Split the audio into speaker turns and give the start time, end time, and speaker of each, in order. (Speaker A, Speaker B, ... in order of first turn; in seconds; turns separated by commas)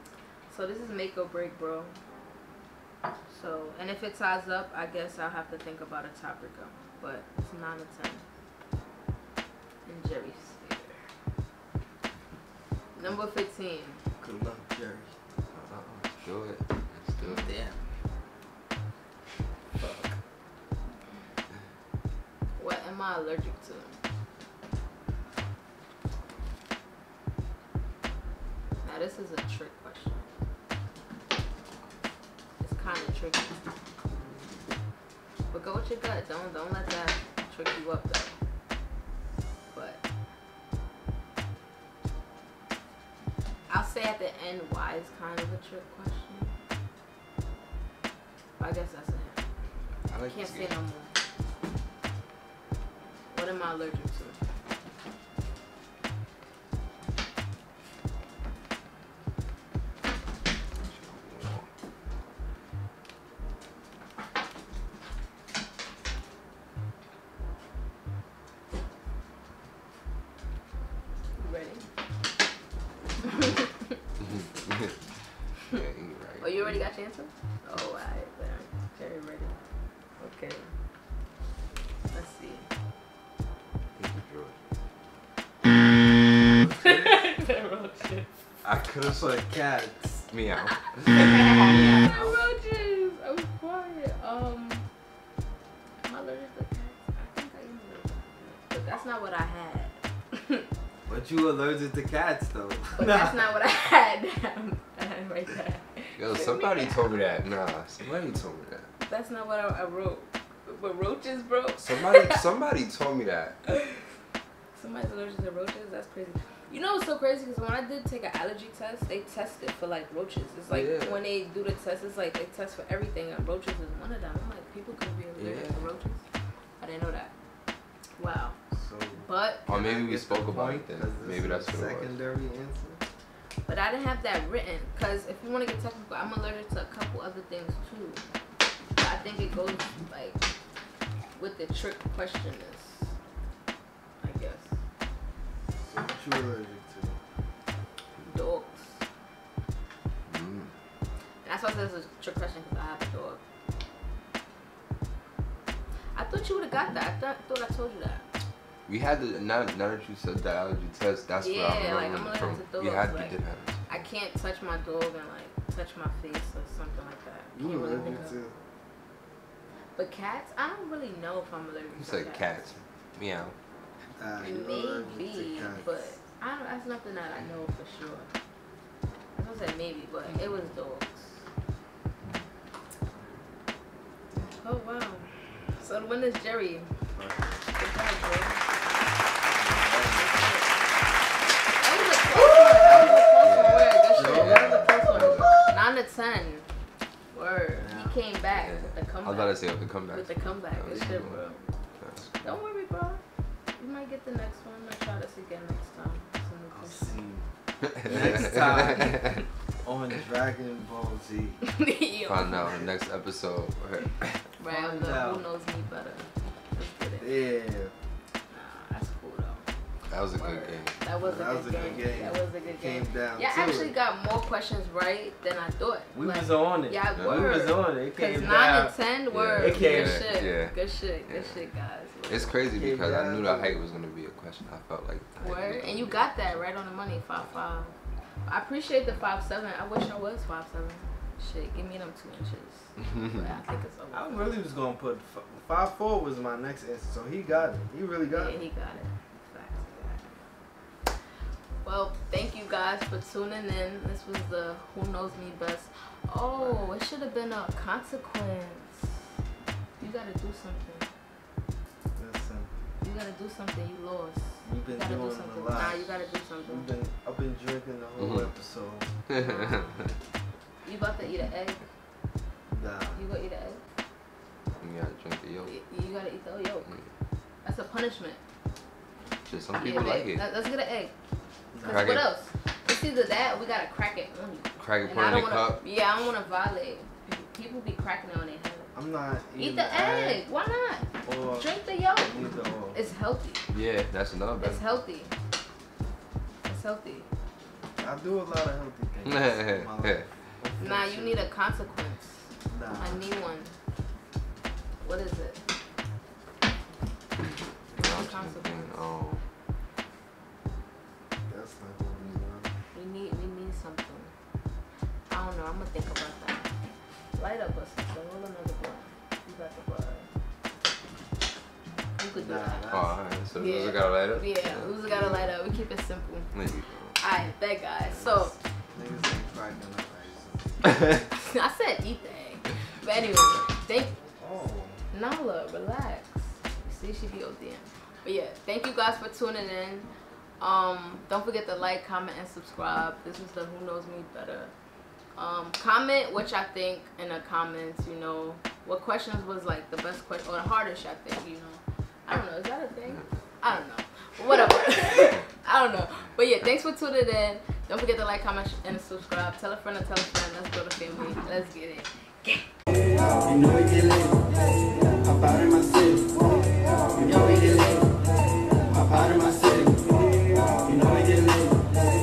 Speaker A: 0.5-2.0, Speaker A: 3.3-8.2, Speaker A: 9.8-11.0, Speaker A: 12.9-14.0, Speaker B: 14.2-15.2, Speaker C: 15.5-17.5, Speaker A: 17.2-17.8, Speaker C: 19.8-20.1, Speaker A: 22.6-24.0, Speaker A: 28.8-30.3, Speaker A: 32.6-33.5, Speaker A: 35.5-38.4, Speaker A: 39.7-40.0, Speaker A: 43.7-46.5, Speaker A: 48.6-49.4, Speaker C: 50.1-50.8, Speaker A: 50.3-51.1, Speaker A: 53.3-54.4, Speaker C: 60.8-61.7, Speaker A: 71.3-71.8, Speaker A: 73.2-74.0, Speaker C: 74.2-75.0, Speaker C: 75.7-76.9, Speaker A: 76.4-79.6, Speaker A: 80.2-80.7, Speaker A: 82.1-82.7, Speaker C: 83.9-84.6, Speaker B: 86.5-87.2, Speaker A: 86.8-88.3, Speaker B: 88.6-90.2, Speaker C: 90.3-91.4, Speaker A: 90.8-94.9, Speaker B: 91.6-92.4, Speaker A: 96.0-100.7, Speaker B: 101.0-103.4, Speaker A: 103.0-107.2, Speaker C: 106.2-108.9, Speaker A: 109.0-112.4, Speaker C: 111.8-113.6, Speaker A: 113.7-114.0, Speaker A: 114.7-126.2, Speaker C: 120.7-121.2, Speaker C: 125.4-125.9, Speaker A: 126.8-127.3, Speaker A: 128.2-128.6, Speaker B: 128.7-133.0, Speaker A: 129.2-129.7, Speaker C: 129.7-132.1, Speaker A: 133.7-138.3, Speaker A: 139.0-140.4, Speaker A: 141.3-143.1, Speaker A: 144.2-144.7, Speaker B: 145.8-147.2, Speaker A: 148.2-149.0, Speaker C: 150.3-150.7, Speaker A: 151.4-153.4, Speaker A: 156.1-158.3, Speaker C: 158.9-164.0, Speaker A: 161.4-163.3, Speaker A: 163.9-168.4, Speaker B: 167.5-168.5, Speaker A: 169.9-172.6, Speaker C: 172.0-173.5, Speaker B: 174.2-176.0, Speaker A: 174.4-178.3, Speaker A: 179.3-181.3, Speaker A: 184.6-187.0, Speaker B: 187.1-187.6, Speaker A: 187.7-188.6, Speaker B: 189.4-190.3, Speaker A: 190.1-190.8, Speaker A: 191.8-196.7, Speaker C: 193.4-195.6, Speaker B: 194.1-195.7, Speaker A: 197.3-201.7, Speaker B: 197.8-198.2, Speaker C: 198.5-201.4, Speaker C: 202.0-202.6, Speaker A: 202.4-203.2, Speaker A: 203.8-207.2, Speaker B: 206.7-207.4, Speaker C: 207.9-209.4, Speaker B: 208.0-211.6, Speaker A: 211.6-212.8, Speaker C: 212.3-214.4, Speaker A: 214.6-217.3, Speaker B: 214.7-215.4, Speaker B: 217.2-217.9, Speaker A: 218.5-219.7, Speaker C: 220.1-221.0, Speaker A: 220.3-232.6, Speaker B: 221.2-223.9, Speaker B: 226.1-228.9, Speaker C: 227.2-227.5, Speaker C: 229.3-231.6, Speaker B: 229.6-230.3, Speaker C: 232.3-236.3, Speaker B: 232.7-233.8, Speaker A: 235.4-237.9, Speaker A: 238.4-244.6, Speaker B: 244.1-248.6, Speaker A: 248.3-250.4, Speaker A: 251.8-259.3, Speaker C: 256.6-256.9, Speaker A: 260.0-261.1, Speaker B: 262.1-262.7, Speaker A: 263.0-266.9, Speaker B: 264.6-266.0, Speaker B: 266.6-269.1, Speaker C: 268.2-268.5, Speaker C: 269.3-270.1, Speaker A: 269.3-270.1, Speaker A: 270.8-271.8, Speaker B: 272.7-273.3, Speaker A: 273.1-273.8, Speaker C: 274.8-275.7, Speaker A: 275.7-277.0, Speaker A: 277.6-278.4, Speaker C: 279.4-280.4, Speaker A: 279.7-281.1, Speaker B: 281.7-282.1, Speaker A: 281.8-288.9, Speaker C: 281.9-282.3, Speaker C: 284.8-285.8, Speaker B: 288.9-290.4, Speaker A: 289.5-293.6, Speaker B: 291.2-293.0, Speaker C: 293.7-294.8, Speaker A: 294.6-295.4, Speaker A: 296.6-297.3, Speaker B: 298.0-301.5, Speaker C: 299.2-300.3, Speaker A: 300.8-303.8, Speaker B: 302.6-303.2, Speaker A: 305.0-305.6, Speaker C: 307.9-309.4, Speaker A: 307.9-309.0, Speaker B: 311.4-312.8, Speaker A: 312.9-314.3, Speaker A: 315.3-316.7, Speaker A: 317.3-320.3, Speaker A: 322.2-322.9, Speaker B: 322.3-323.1, Speaker C: 322.9-325.5, Speaker A: 323.5-326.5, Speaker C: 326.5-327.1, Speaker A: 327.2-328.6, Speaker B: 328.0-331.0, Speaker A: 331.3-334.2, Speaker B: 334.4-335.0, Speaker A: 335.1-340.1, Speaker A: 340.6-344.7, Speaker A: 345.3-362.7, Speaker D: 362.9-364.6, Speaker D: 365.1-366.5, Speaker D: 367.1-368.2, Speaker D: 368.9-371.9